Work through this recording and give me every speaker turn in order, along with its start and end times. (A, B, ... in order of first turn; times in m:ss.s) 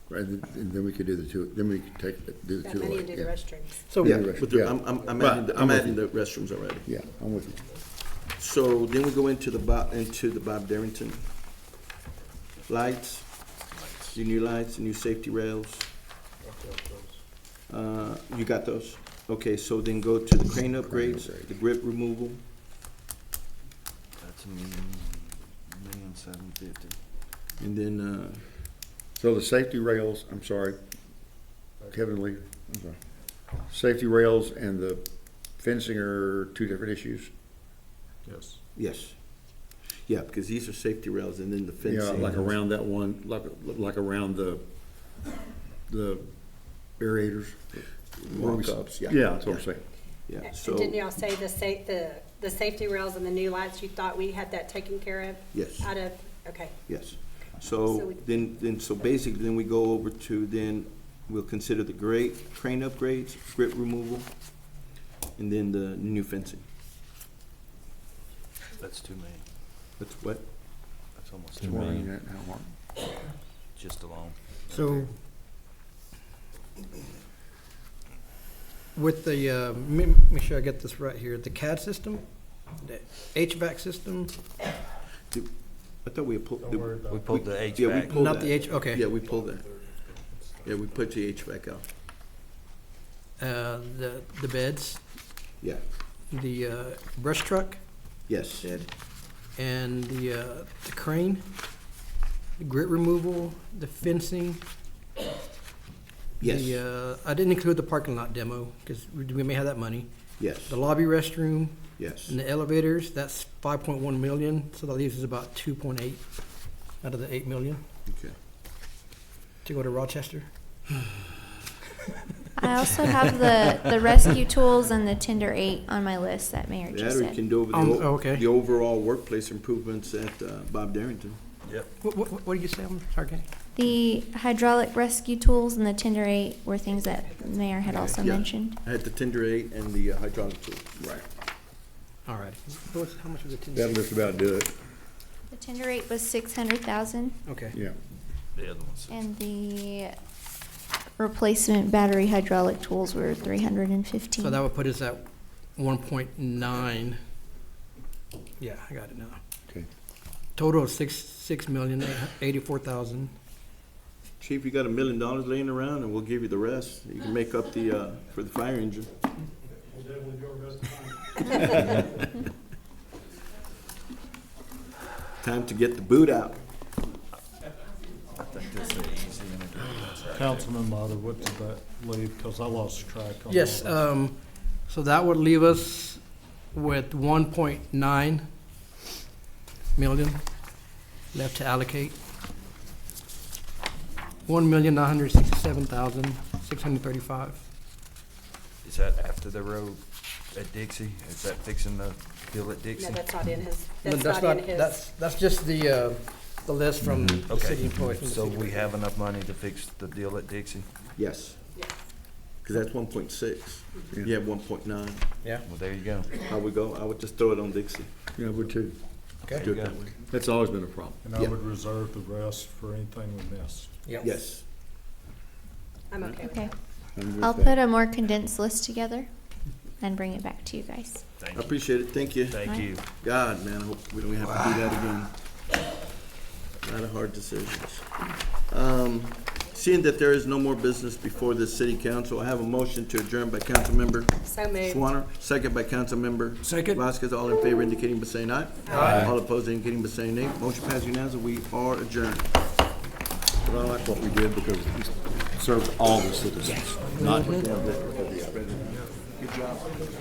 0:00.1-0:06.0 A
0:02.6-0:03.9 B
0:03.9-0:04.2 C
0:04.0-0:06.9 D
0:06.8-0:07.6 A
0:08.4-0:11.2 D
0:12.7-0:13.5 D
0:13.7-0:14.2 E
0:14.1-0:15.9 D
0:16.4-0:17.2 F
0:17.7-0:22.4 D
0:20.8-0:21.5 A
0:24.2-0:27.0 E
0:27.6-0:28.4 D
0:29.2-0:30.8 A
0:31.9-0:33.0 A
0:33.5-0:37.3 A
0:38.2-0:38.6 F
0:38.8-0:39.4 D
0:40.1-0:42.6 D
0:41.8-0:44.6 A
0:45.9-0:46.2 A
0:47.0-0:49.8 A
0:48.2-0:49.6 D
0:50.2-0:51.0 D
0:50.4-0:56.8 B
0:55.5-0:55.9 D
0:56.9-1:04.3 D
0:57.9-0:58.2 B
1:05.4-1:06.6 D
1:08.8-1:09.4 E
1:10.0-1:10.4 D
1:11.2-1:12.1 E
1:11.6-1:12.7 A
1:13.8-1:15.1 E
1:14.7-1:15.1 C
1:19.0-1:24.4 C
1:25.3-1:29.7 D
1:26.6-1:27.6 F
1:27.1-1:28.3 E
1:28.0-1:29.1 C
1:29.7-1:30.7 F
1:30.6-1:31.8 D
1:33.4-1:35.0 C
1:36.3-1:37.8 C
1:38.3-1:38.9 D
1:39.6-1:41.4 C
1:42.6-1:44.6 C
1:46.4-1:57.8 C
1:46.4-1:46.8 D
1:50.4-1:50.8 D
1:52.0-1:52.4 D
1:58.1-1:58.3 D
1:59.6-2:00.5 C
2:02.6-2:07.4 G
2:06.9-2:11.4 D
2:07.7-2:08.4 C
2:12.0-2:13.4 C
2:13.8-2:18.8 G
2:16.8-2:17.6 B
2:17.8-2:18.2 C
2:18.2-2:21.0 D
2:22.2-2:24.0 C
2:23.7-2:24.8 A
2:25.5-2:27.4 G
2:27.5-2:27.8 C
2:28.5-2:29.2 E
2:29.1-2:30.1 G
2:31.2-2:34.6 G
2:34.4-2:37.2 C
2:38.6-2:39.4 C
2:40.6-2:43.3 C
2:44.4-2:49.1 D
2:55.4-2:56.6 D
2:58.4-3:00.7 E
3:00.3-3:04.0 F
3:03.5-3:08.5 C
3:10.0-3:10.4 C
3:11.3-3:12.2 C
3:14.5-3:17.6 C
3:18.8-3:20.0 E
3:20.5-3:23.2 E
3:22.9-3:25.0 B
3:24.0-3:28.9 C
3:27.4-3:30.9 E
3:31.2-3:31.6 D
3:31.8-3:32.0 B
3:32.6-3:35.2 D
3:35.6-3:36.3 E
3:36.3-3:38.1 D
3:38.4-3:39.0 A
3:39.5-3:40.1 E
3:39.6-3:40.1 D
3:40.3-3:41.2 A
3:41.2-3:44.0 F
3:44.2-3:44.6 D
3:46.1-3:46.7 B
3:47.1-3:47.8 A
3:47.4-3:49.3 G
3:50.0-3:51.2 G
3:51.4-3:53.0 E
3:51.5-3:55.3 D
3:52.6-3:52.9 G
3:56.8-4:12.5 D
4:04.4-4:05.1 B
4:06.6-4:07.0 C
4:08.8-4:09.2 B
4:08.9-4:09.3 C
4:13.6-4:18.9 A
4:17.1-4:17.6 C
4:19.4-4:20.0 D